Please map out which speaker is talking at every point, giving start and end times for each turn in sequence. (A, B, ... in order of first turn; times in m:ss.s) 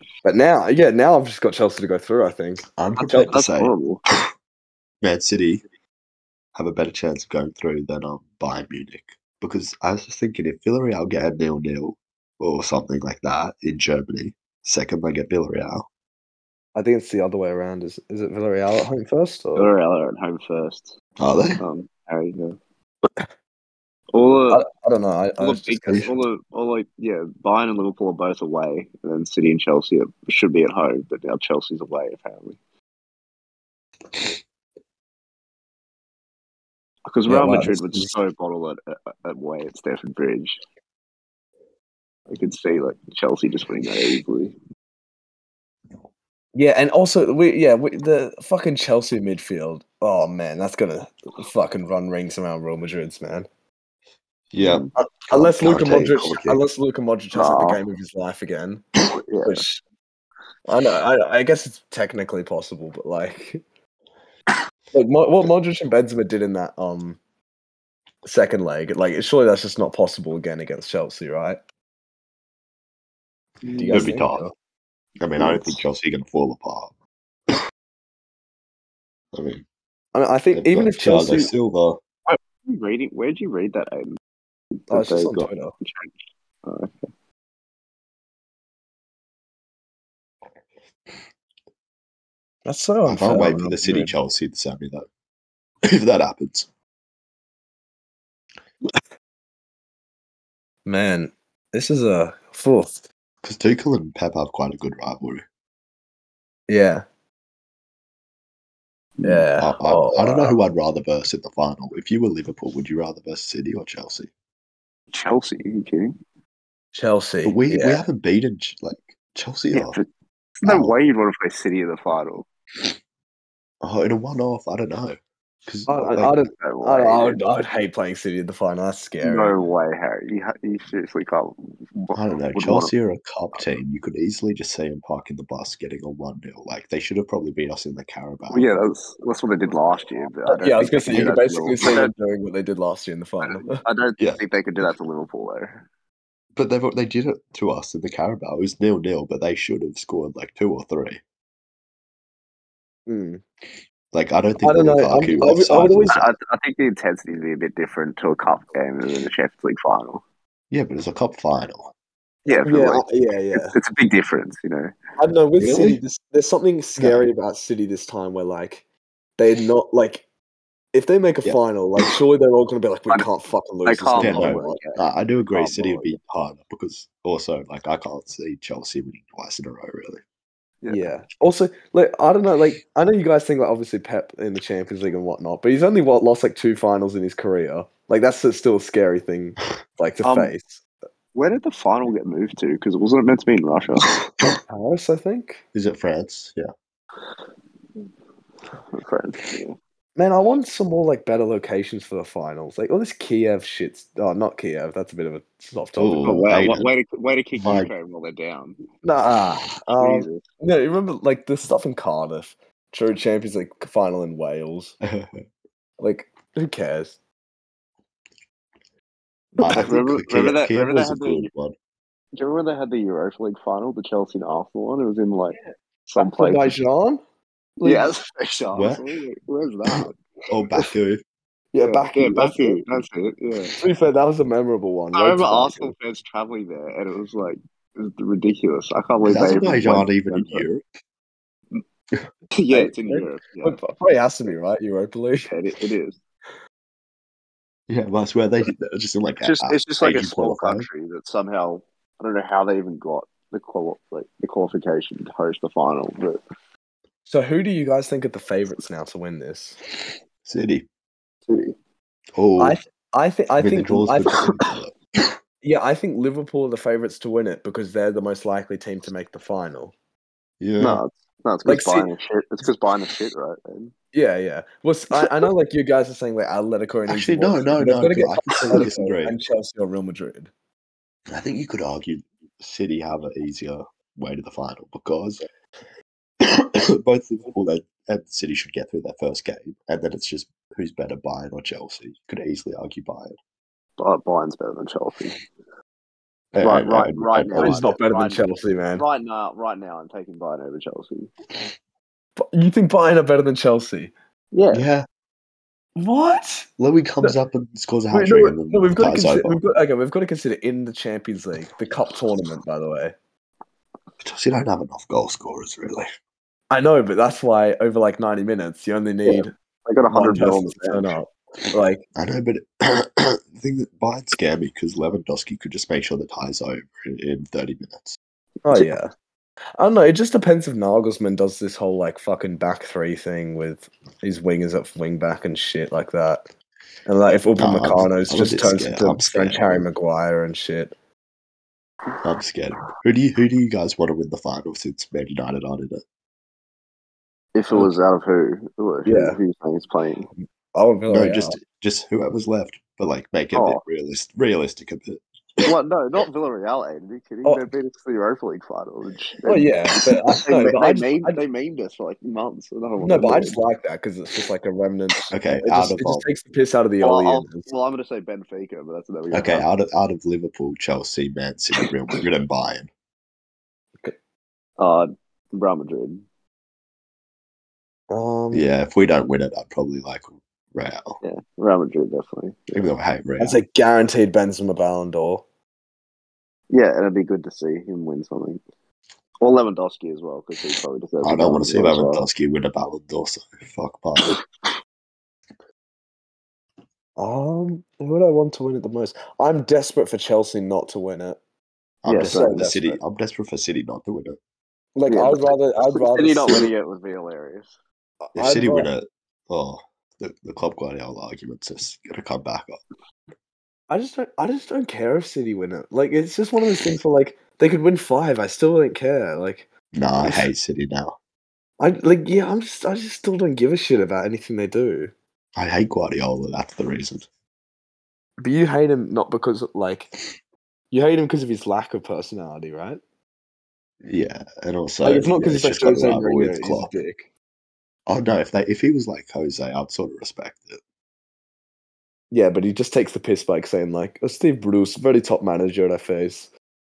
0:00.2-0:03.3 A
0:02.7-0:03.7 B
0:03.0-0:04.0 C
0:05.0-0:05.6 B
0:06.5-0:15.8 B
0:16.7-0:19.7 A
0:19.6-0:20.9 C
0:21.2-0:21.6 B
0:21.6-0:22.6 C
0:24.1-0:24.6 C
0:24.5-0:26.1 A
0:25.4-0:32.6 C
0:37.1-0:40.6 C
0:37.3-0:38.1 A
0:42.3-0:44.5 C
0:46.5-0:53.5 A
0:54.5-0:56.6 B
0:54.6-0:54.9 C
0:54.9-0:58.8 A
0:57.3-0:57.8 C
0:59.1-0:59.6 C
0:59.4-0:59.8 A
1:00.7-1:03.6 A
1:04.9-1:07.2 A
1:08.2-1:11.6 A
1:13.6-1:14.1 C
1:13.7-1:14.5 A
1:13.9-1:14.5 B
1:15.2-1:16.9 B
1:15.4-1:15.8 C
1:19.3-1:19.6 B
1:20.1-1:21.5 A
1:20.5-1:22.0 B
1:22.3-1:24.2 C
1:24.9-1:25.7 A
1:24.9-1:26.1 C
1:26.6-1:27.1 C
1:32.6-1:34.1 A
1:33.1-1:35.1 B
1:35.8-1:36.7 B
1:40.8-1:43.0 A
1:43.4-1:45.4 B
1:46.7-1:47.0 A
1:49.2-1:49.4 C
1:49.2-1:50.6 A
1:49.6-1:54.3 B
1:55.1-1:56.1 C
1:56.9-1:58.0 A
1:57.4-2:00.0 B
1:59.7-2:00.0 C
2:00.6-2:02.5 C
2:00.6-2:01.0 B
2:03.8-2:06.3 B
2:05.9-2:09.5 A
2:06.5-2:07.4 C
2:09.2-2:12.9 C
2:12.1-2:18.7 B
2:18.5-2:22.1 C
2:20.5-2:23.8 A
2:23.4-2:25.8 C
2:26.6-2:31.2 B
2:33.1-2:33.4 A
2:34.1-2:36.3 B
2:34.6-2:36.1 A
2:36.1-2:40.2 C
2:40.7-2:41.9 B
2:42.4-2:44.9 C
2:42.6-2:43.7 A
2:45.2-2:48.8 A
2:45.6-2:46.0 B
2:47.0-2:47.3 B
2:49.4-2:50.2 A
2:50.9-2:54.8 A
2:53.8-2:55.0 C
2:54.2-3:00.2 B
2:55.5-2:56.2 C
3:00.9-3:10.8 A
3:10.2-3:10.5 C
3:11.3-3:14.1 C
3:14.7-3:15.6 A
3:15.7-3:16.7 B
3:18.9-3:19.8 C
3:20.2-3:26.3 A
3:26.0-3:26.9 B
3:26.2-3:28.8 C
3:27.6-3:27.9 B
3:29.0-3:35.0 A
3:30.0-3:30.4 C
3:35.0-3:35.4 B
3:36.0-3:37.2 A
3:39.6-3:39.9 A
3:39.6-3:41.7 B
3:39.7-3:41.5 C
3:42.3-3:46.8 C
3:46.2-3:47.2 A
3:47.8-3:48.1 A
3:47.8-3:50.2 C
3:48.7-3:49.1 B
3:49.9-3:51.2 B
3:51.7-3:52.9 A
3:51.8-3:53.7 C
3:53.8-3:55.9 A
3:55.1-4:00.6 C
3:59.2-4:00.8 B
4:02.6-4:03.8 C
4:02.7-4:05.5 A
4:05.5-4:06.2 C
4:07.9-4:10.9 B
4:09.4-4:16.4 C
4:17.2-4:19.8 A
4:20.4-4:20.8 B
4:21.5-4:21.7 C
4:22.4-4:22.8 B
4:22.6-4:24.6 A
4:23.6-4:25.4 B
4:25.6-4:29.9 A
4:30.6-4:31.0 B
4:30.8-4:33.9 C
4:31.6-4:32.1 A
4:34.1-4:40.5 A
4:37.1-4:39.3 B
4:41.3-4:45.4 B
4:46.4-4:53.3 B
4:54.0-4:55.4 C
4:56.5-4:57.8 B
4:56.6-5:01.3 C
4:57.6-4:59.0 A
5:02.4-5:04.1 A
5:04.5-5:04.8 C
5:04.7-5:05.0 B
5:06.0-5:06.7 A
5:06.8-5:09.6 B
5:08.1-5:13.1 A
5:14.2-5:16.0 B
5:16.7-5:19.5 A
5:19.3-5:21.2 C
5:20.1-5:22.0 A
5:22.2-5:28.2 B
5:28.6-5:29.1 A
5:29.8-5:36.4 A
5:37.0-5:40.9 A
5:37.6-5:39.8 B
5:42.2-5:46.0 B
5:47.5-5:50.3 C
5:49.0-5:49.4 A
5:50.4-5:51.6 A
5:51.1-5:55.7 B
5:53.5-5:53.8 C
5:55.6-6:03.6 C
5:57.4-5:57.7 A
5:59.4-6:01.4 A
6:03.0-6:07.7 A
6:05.3-6:06.3 B
6:07.0-6:09.6 C
6:09.3-6:12.9 B
6:14.8-6:16.2 C
6:18.1-6:18.6 A
6:18.5-6:21.2 B
6:21.2-6:22.9 C
6:22.7-6:23.6 B
6:23.4-6:25.4 A
6:26.7-6:28.6 C
6:29.4-6:32.2 C
6:31.2-6:34.4 B
6:37.2-6:41.4 A
6:42.0-6:44.4 B
6:42.0-6:42.6 C
6:42.2-6:43.0 A
6:44.9-6:46.7 A
6:45.1-6:47.7 C
6:48.2-6:48.9 A
6:48.3-6:52.8 B
6:53.9-6:59.7 A
6:59.9-7:01.2 B
7:00.2-7:00.5 A
7:01.8-7:05.1 A
7:05.6-7:07.3 B
7:08.4-7:10.1 A
7:10.9-7:13.0 A
7:14.0-7:17.0 B
7:15.0-7:17.3 A
7:18.0-7:20.8 B
7:22.3-7:26.5 A